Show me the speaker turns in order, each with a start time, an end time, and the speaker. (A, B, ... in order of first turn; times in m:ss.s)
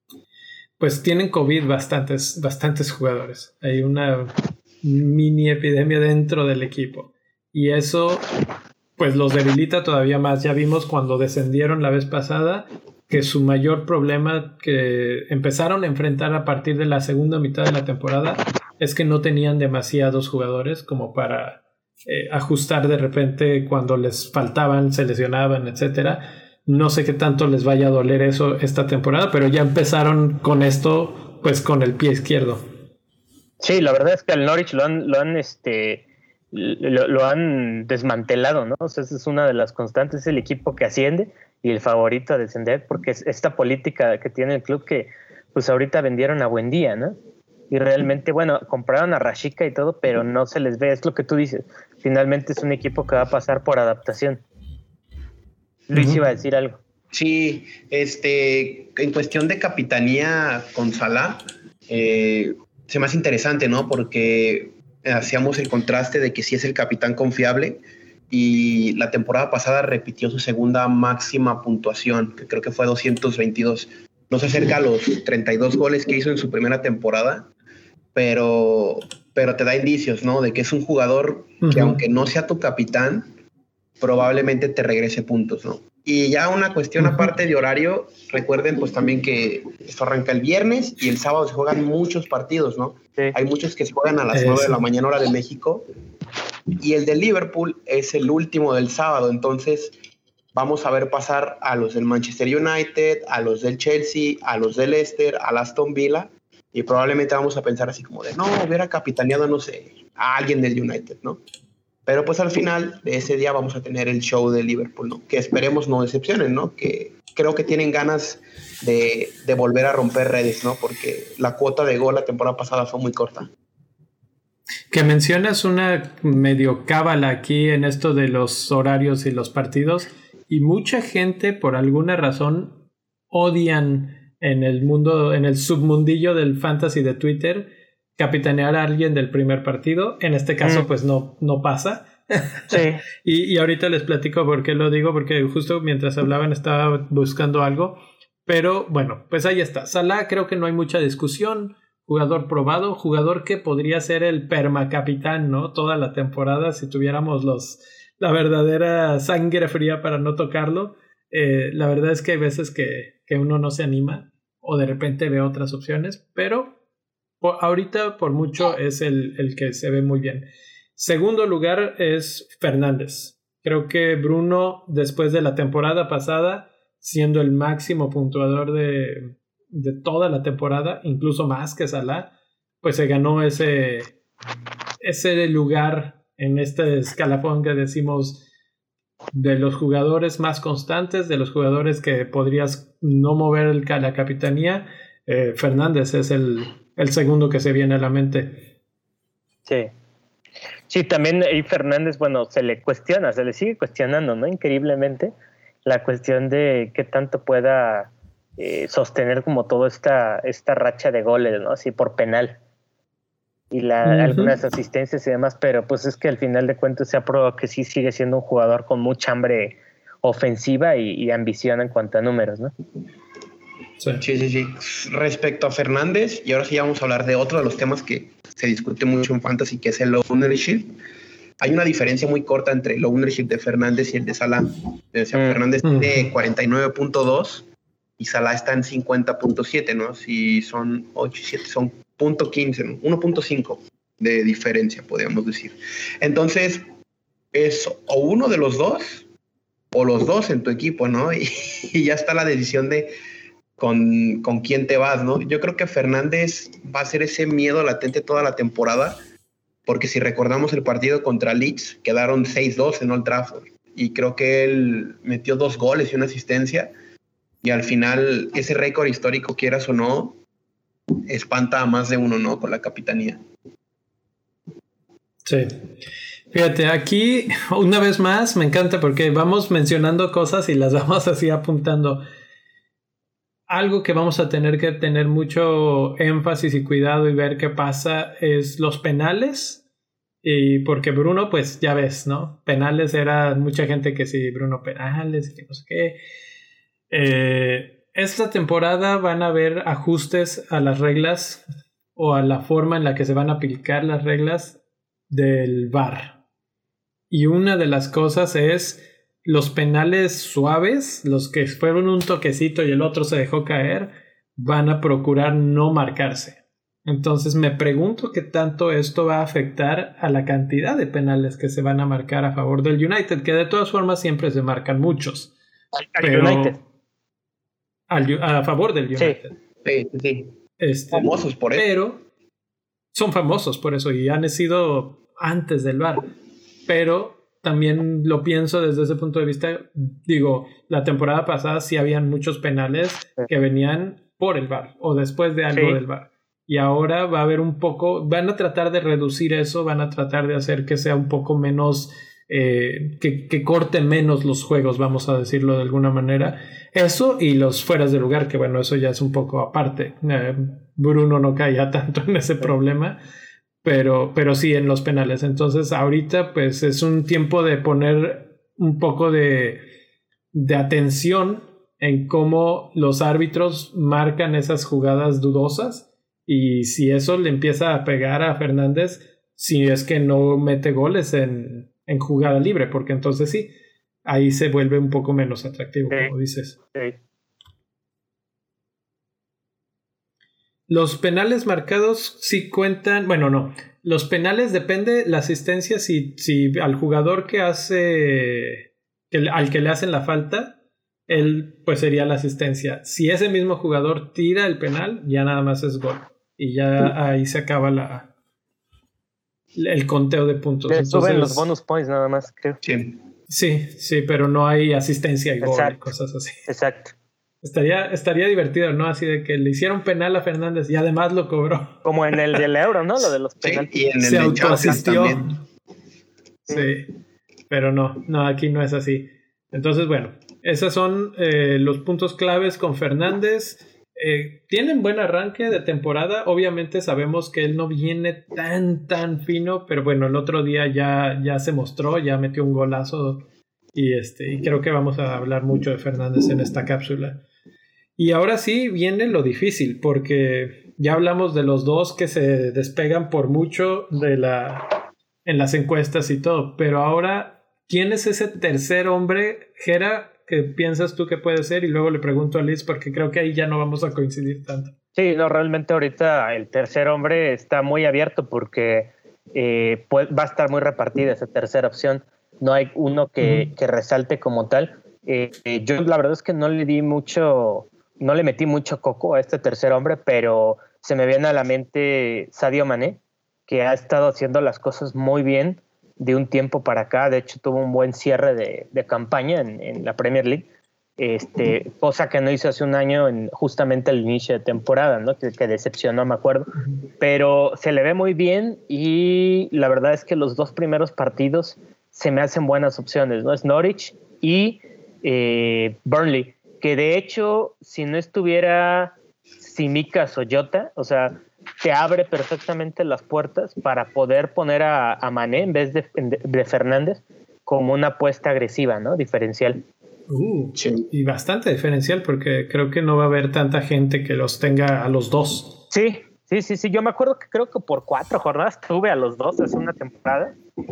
0:00.8-0:08.2 A
0:09.0-0:32.6 A
0:33.6-0:47.2 B
0:47.7-0:54.4 B
0:55.9-0:56.8 B
0:55.9-0:56.2 A
0:57.1-1:17.5 C
1:18.1-1:23.3 C
1:21.6-1:22.0 A
1:24.0-1:35.8 C
1:27.0-1:27.3 A
1:34.3-1:34.8 A
1:36.8-1:39.9 C
1:40.5-1:51.4 C
1:52.0-2:03.5 C
2:04.9-2:12.8 A
2:13.3-2:46.8 A
2:22.7-2:23.0 B
2:47.4-2:50.4 A
2:51.0-3:02.3 A
3:02.8-3:04.1 A
3:05.0-3:08.4 A
3:09.3-3:18.6 A
3:19.6-3:19.9 B
3:20.9-3:25.3 B
3:25.8-3:32.6 B
3:33.7-3:42.7 B
3:34.0-3:34.6 A
3:44.2-3:50.9 C
3:51.6-3:57.6 C
3:55.3-3:55.6 B
3:55.8-3:56.3 A
3:58.2-4:06.8 C
4:07.5-4:09.3 C
4:09.9-4:13.1 C
4:13.8-4:19.2 C
4:19.8-4:26.9 C
4:27.6-4:30.4 C
4:31.3-4:33.4 C
4:35.4-4:35.8 A
4:36.5-4:42.2 A
4:43.7-4:49.8 A
4:50.4-4:56.2 A
4:57.1-5:01.6 A
5:02.2-5:04.8 A
5:05.3-5:06.4 A
5:07.3-5:25.5 A
5:25.9-5:26.8 B
5:26.2-5:26.8 A
5:28.1-5:29.6 A
5:29.8-5:30.6 C
5:30.8-5:32.2 A
5:31.1-5:31.9 C
5:33.1-5:36.3 A
5:36.9-6:03.2 A
5:45.7-5:46.0 B
6:03.8-6:09.8 A
6:10.5-6:23.7 A
6:24.2-6:26.8 A
6:26.9-6:27.2 B
6:30.9-6:40.7 A
6:41.3-6:48.3 A
6:49.7-6:51.7 A
6:50.9-6:52.8 B
6:52.8-6:53.2 C
6:53.5-6:56.6 A
6:55.6-6:56.0 B
6:56.7-6:57.1 B
6:57.6-7:02.0 A
7:02.0-7:03.9 B
7:03.6-7:05.5 C
7:04.2-7:05.6 A
7:06.7-7:07.1 A
7:07.7-7:27.4 A
7:28.2-7:44.9 A
7:45.2-8:10.6 B
7:53.4-7:53.7 A
8:11.2-8:39.8 B
8:40.3-8:45.8 A
8:40.7-8:41.1 C
8:45.9-8:50.5 B